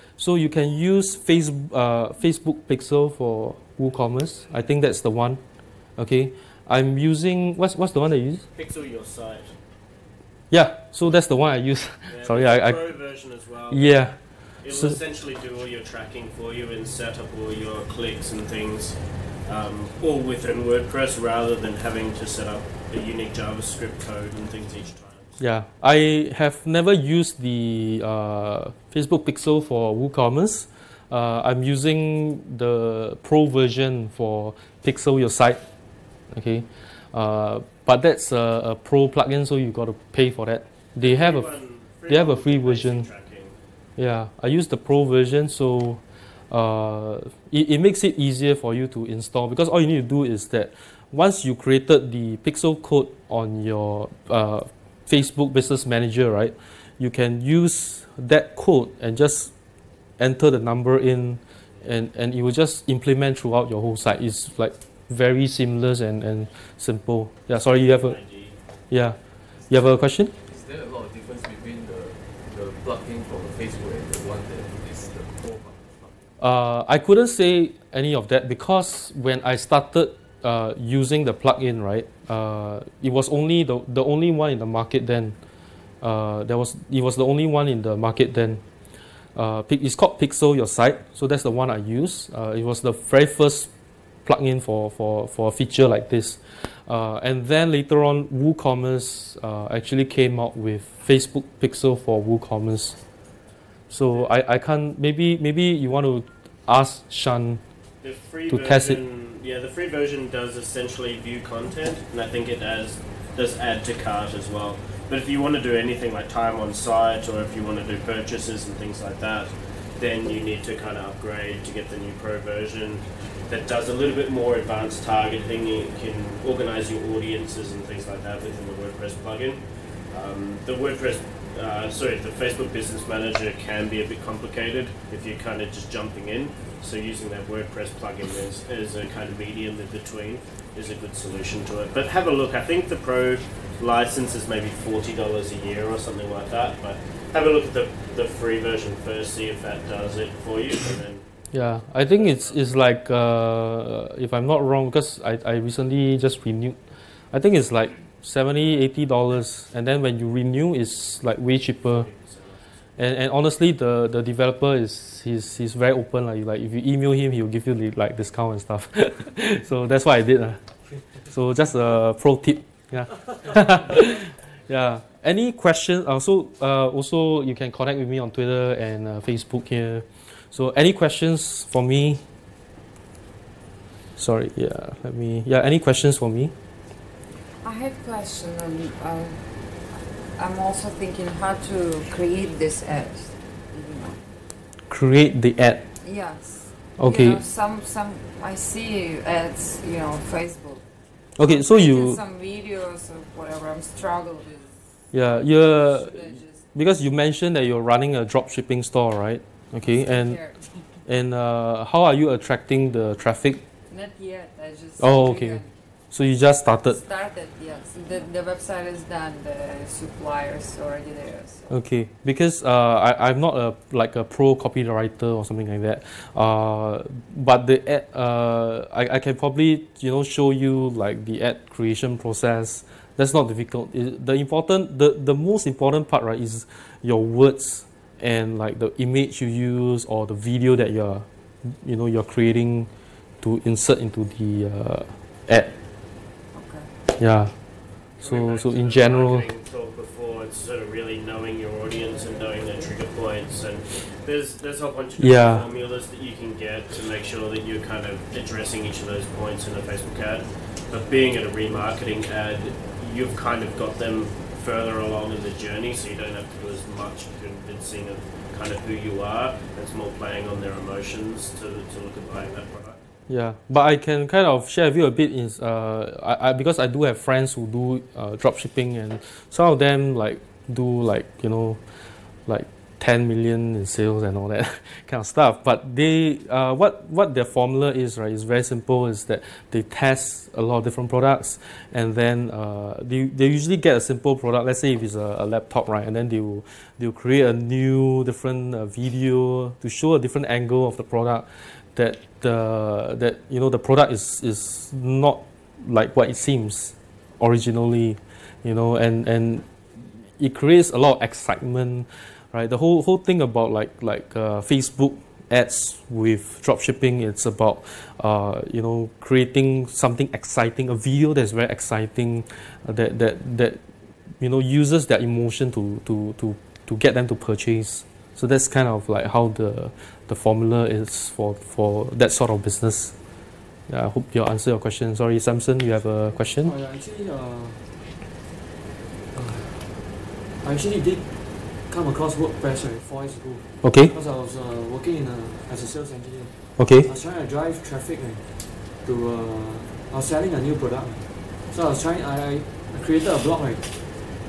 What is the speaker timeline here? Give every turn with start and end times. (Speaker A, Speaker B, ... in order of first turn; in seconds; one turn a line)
Speaker A: 0.2-5.4
Speaker A: 6.0-8.4
Speaker B: 8.5-9.5
Speaker A: 10.5-12.9
Speaker B: 12.1-14.1
Speaker A: 13.7-15.0
Speaker B: 14.6-25.4
Speaker A: 25.4-35.6
Speaker A: 36.3-41.5
Speaker B: 41.0-43.5
Speaker A: 42.1-43.1
Speaker A: 44.0-59.5
Speaker A: 60.2-68.2
Speaker B: 67.8-68.5
Speaker A: 68.9-69.2
Speaker A: 69.7-70.3
Speaker C: 70.4-76.2
Speaker A: 76.4-85.3
Speaker A: 86.0-88.6
Speaker A: 89.3-93.7
Speaker A: 94.2-103.0
Speaker A: 103.9-107.6
Speaker B: 104.1-104.3
Speaker B: 108.0-151.2
Speaker A: 108.5-109.0
Speaker A: 151.5-156.8
Speaker B: 152.0-152.6
Speaker A: 157.3-162.1
Speaker B: 161.8-162.7
Speaker A: 163.0-170.6
Speaker A: 171.3-182.2
Speaker A: 184.2-186.5
Speaker D: 187.6-189.5
Speaker D: 190.4-194.2
Speaker A: 194.9-195.8
Speaker D: 196.0-200.8
Speaker A: 197.0-197.4
Speaker A: 201.4-202.2
Speaker D: 201.4-206.6
Speaker A: 205.1-210.4
Speaker D: 209.8-210.7
Speaker A: 211.1-213.6
Speaker D: 213.9-215.7
Speaker A: 215.0-217.0
Speaker D: 216.8-221.7
Speaker A: 221.7-242.9
Speaker A: 243.4-245.7
Speaker D: 246.5-246.9
Speaker A: 247.2-247.5
Speaker B: 248.2-273.0
Speaker A: 248.2-249.5
Speaker D: 251.8-253.5
Speaker A: 255.2-255.7
Speaker A: 273.3-281.8
Speaker A: 282.5-309.7
Speaker A: 310.4-323.8
Speaker A: 324.4-333.1
Speaker A: 333.9-336.7
Speaker E: 336.3-337.9
Speaker E: 339.3-340.0
Speaker E: 340.6-354.0
Speaker A: 343.8-344.1
Speaker A: 346.8-347.1